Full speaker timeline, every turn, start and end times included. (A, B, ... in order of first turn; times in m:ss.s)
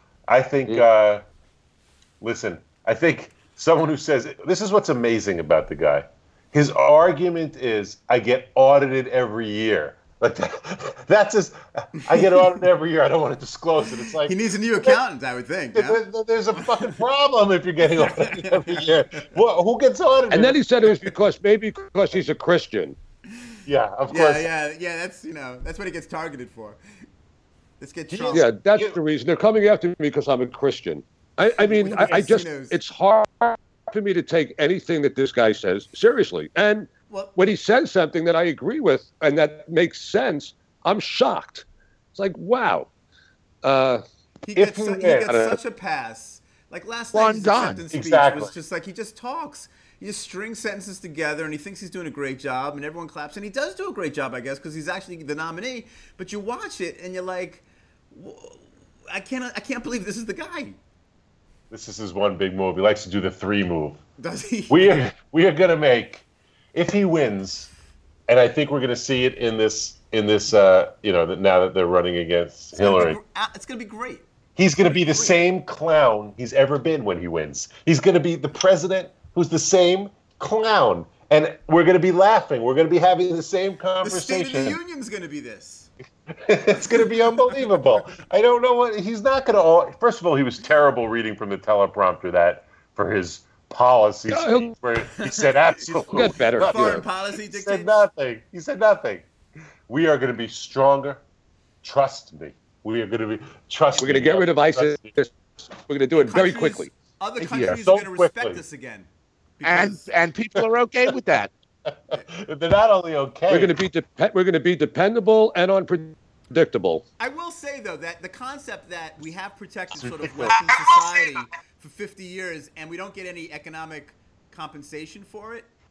0:00.3-0:01.2 A
0:02.2-0:15.0 A
0:12.1-0:12.6 B
0:14.2-0:16.0 B
0:15.7-0:20.6 A
0:18.0-0:19.3 B
0:20.3-0:23.0 C
0:23.7-0:24.5 A
0:24.1-0:26.8 B
0:27.8-0:28.5 B
0:28.1-0:29.0 A
0:28.3-0:42.9 C
0:31.4-0:32.8 B
0:37.1-0:37.3 B
0:43.6-0:44.0 C
0:44.4-1:00.8 B
0:44.6-0:45.3 A
0:47.1-0:47.8 D
0:47.9-0:48.5 A
1:01.7-1:04.0 A
1:04.2-1:05.0 B
1:04.7-1:07.7 A
1:08.3-1:13.2 A
1:12.8-1:14.2 B
1:14.6-1:24.8 A
1:15.1-1:15.3 B
1:24.0-1:25.9 B
1:26.3-1:39.3 A
1:34.3-1:34.7 C
1:35.2-1:38.0 B
1:36.1-1:37.0 C
1:39.9-1:41.2 A
1:41.8-1:45.1 A
1:44.0-1:46.9 C
1:46.2-1:49.1 B
1:47.5-1:47.8 D
1:47.5-1:48.6 A
1:49.6-1:50.1 B
1:49.6-1:51.5 D
1:52.1-1:53.8 A
1:53.5-1:57.0 C
1:57.2-2:05.7 B
2:00.0-2:00.9 A